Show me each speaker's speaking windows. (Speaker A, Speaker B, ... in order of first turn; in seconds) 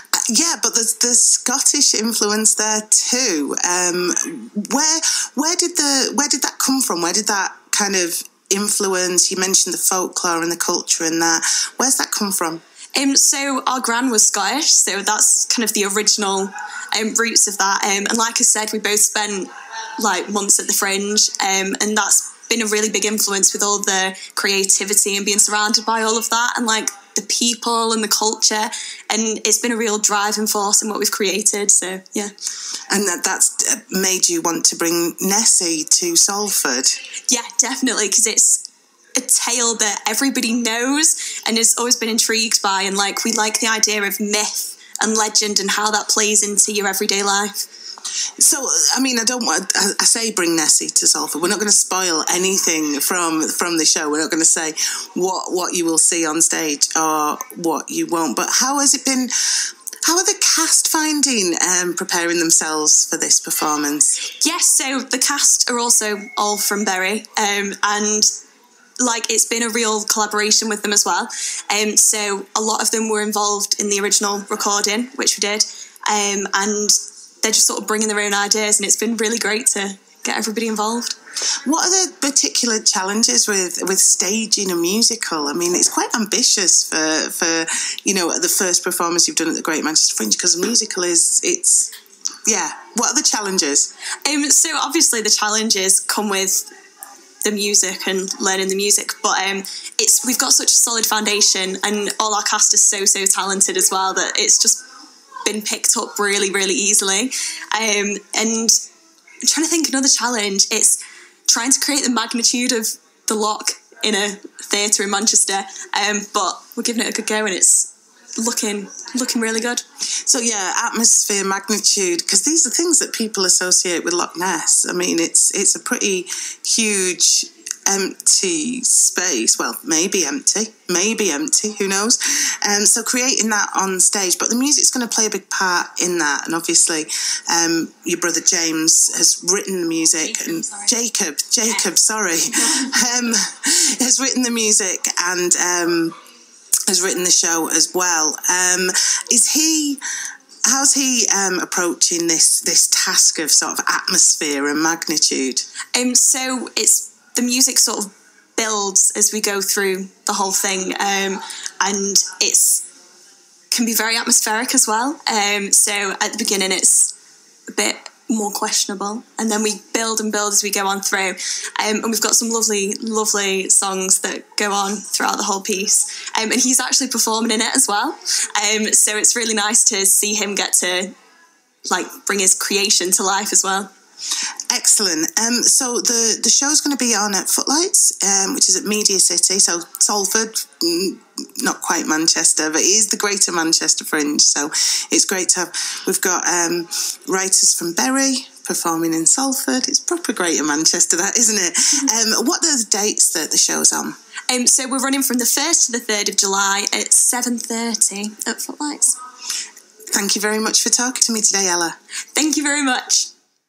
Speaker A: 0.1-12.6, 32.9-37.0, 48.4-59.3, 60.0-64.2, 81.7-91.9, 92.5-93.9, 120.2-146.1, 146.9-150.0, 150.7-155.6, 184.7-204.1, 210.1-211.9
Speaker B: 12.9-32.3, 37.3-47.7, 64.3-68.3, 69.0-81.2, 94.2-96.7, 97.4-104.8, 105.4-108.8, 109.5-119.8, 155.9-162.8, 163.7-167.1, 167.7-181.1, 181.9-183.9, 204.5-209.2, 212.3-213.3